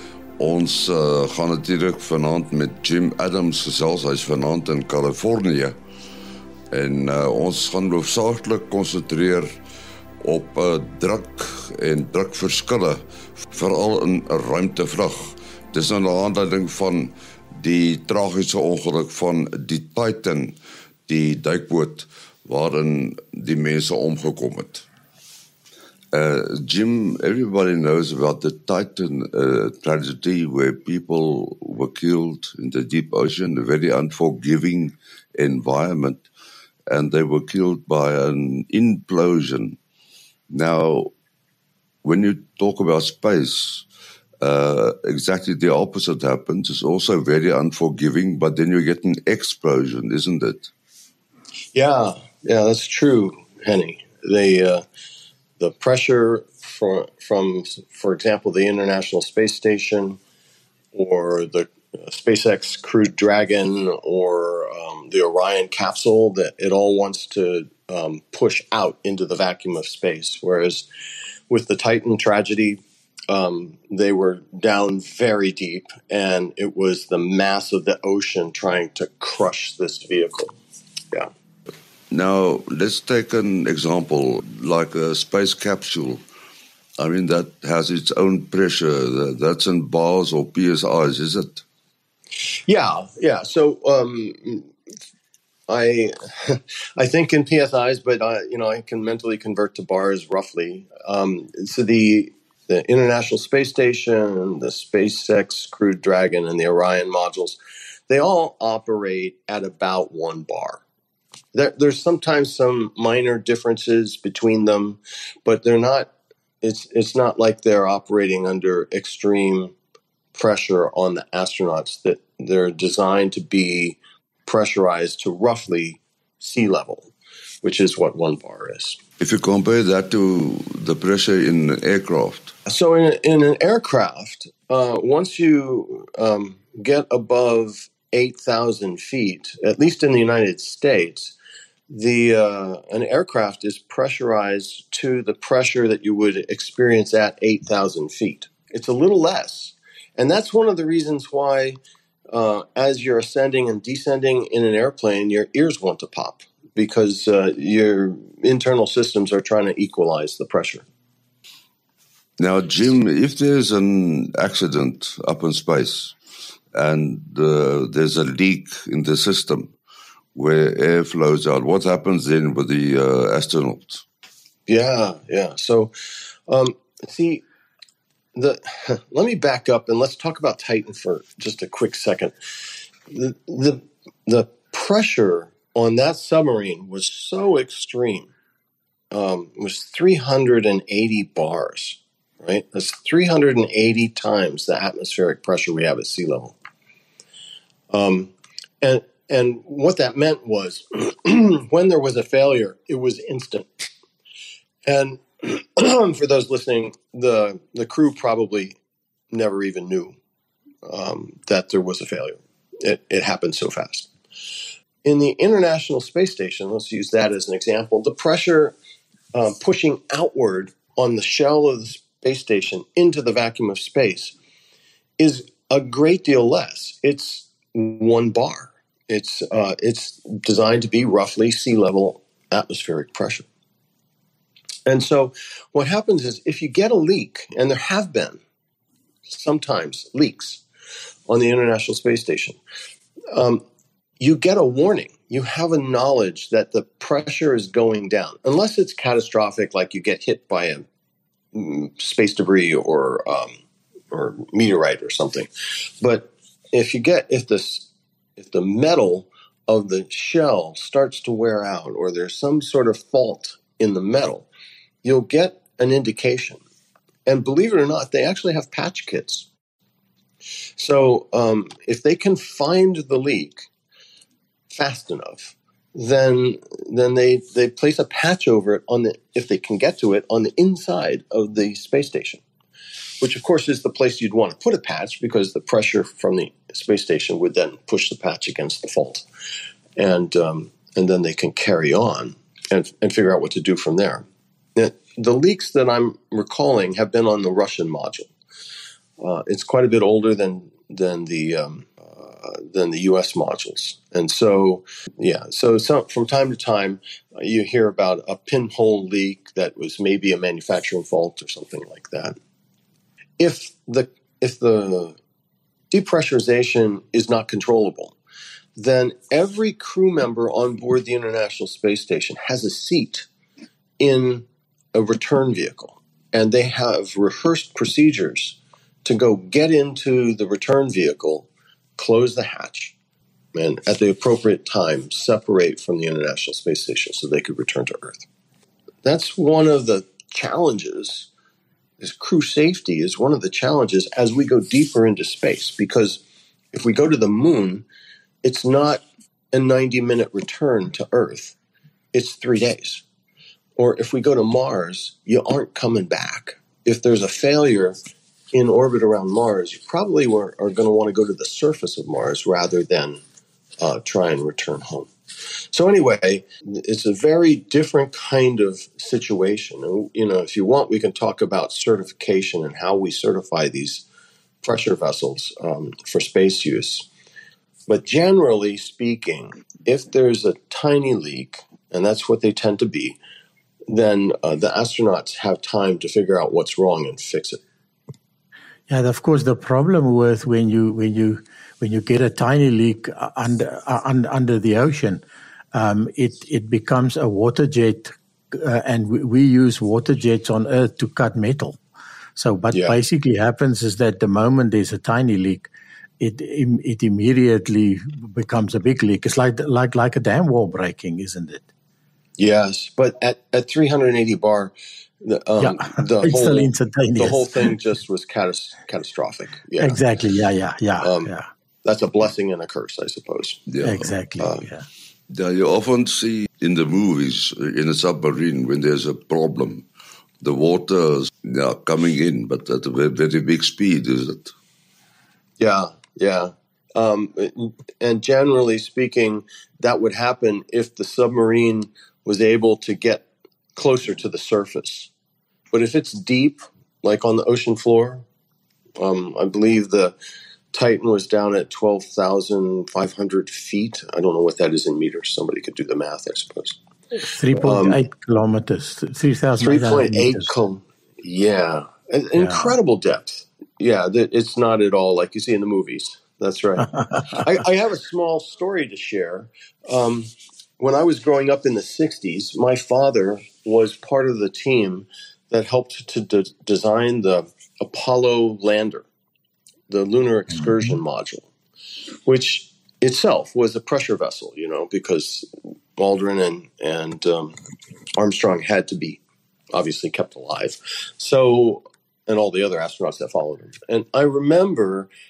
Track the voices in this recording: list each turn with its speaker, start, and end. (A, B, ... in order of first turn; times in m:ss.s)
0:00.4-0:05.8 A
0:06.7-0:09.5 A
0:10.2-0:20.6 A
0:21.1-0:24.8 A
0:26.1-0:36.2 A
0:36.9-0:39.8 A
0:40.5-0:41.1 A
0:42.0-0:43.8 A
0:44.4-0:50.7 A
0:51.7-0:54.8 B
0:55.6-1:00.2 B
1:00.9-1:10.9 B
1:11.5-1:20.6 B
1:22.1-1:26.2 A
1:27.0-1:31.6 A
1:32.7-1:34.7 B
1:35.7-1:47.6 B
1:48.1-1:50.8 B
1:51.5-1:59.7 B
2:00.3-2:07.1 B
2:07.6-2:09.0 B
2:09.2-2:12.5 A
2:12.7-2:21.3 B
2:21.9-2:31.8 B
2:32.3-2:40.8 B
2:42.4-2:46.1 A
2:46.7-2:49.7 A
2:50.3-2:54.0 A
2:54.7-2:55.9 B
2:56.5-2:57.4 B
2:58.3-3:08.3 B
3:09.1-3:16.6 B
3:17.9-3:23.9 B
3:24.8-3:28.8 B
3:29.3-3:30.2 B
3:30.8-3:34.1 B
3:35.0-3:38.8 B
3:39.3-3:44.3 B
3:45.2-3:53.4 B
3:54.8-3:58.4 B
3:59.2-4:00.6 B
4:01.3-4:02.6 B
4:03.3-4:03.6 B
4:04.2-4:10.8 B
4:11.5-4:13.6 B
4:14.1-4:24.5 B
4:25.0-4:26.6 B
4:27.2-4:29.5 B
4:30.8-4:33.7 B
4:34.7-4:42.4 B
4:43.2-4:49.2 B
4:50.0-4:58.3 B
4:59.2-5:12.4 B
5:13.4-5:15.2 B
5:15.9-5:18.2 B
5:18.8-5:23.3 B
5:24.0-5:32.9 B
5:33.5-5:38.2 B
5:39.0-5:41.3 B
5:42.0-5:47.8 B
5:48.4-5:51.6 B
5:52.1-5:53.0 B
5:53.8-5:58.0 B
5:58.5-6:03.2 B
6:03.8-6:05.1 B
6:05.7-6:14.0 B
6:14.6-6:17.1 B
6:17.9-6:23.2 B
6:23.9-6:27.6 B
6:28.9-6:35.2 C
6:35.7-6:41.8 C
6:42.4-6:45.7 C
6:46.2-6:51.7 C
6:52.4-7:00.0 B
6:55.6-6:57.7 C
6:59.8-7:01.5 C
7:01.0-7:01.3 B
7:01.8-7:03.6 B
7:03.7-7:04.0 A
7:03.8-7:04.8 C
7:04.4-7:04.7 B
7:05.3-7:09.9 A
7:10.4-7:14.5 A
7:15.6-7:25.1 B
7:25.7-7:28.2 B
7:29.0-7:30.1 B
7:30.7-7:36.8 B
7:37.3-7:40.5 C
7:37.5-7:38.0 B
7:39.6-7:59.0 B
7:42.4-7:42.7 C
7:46.9-7:47.4 C
7:59.9-8:01.5 B
8:02.2-8:07.6 B
8:08.2-8:09.2 B
8:09.7-8:15.1 B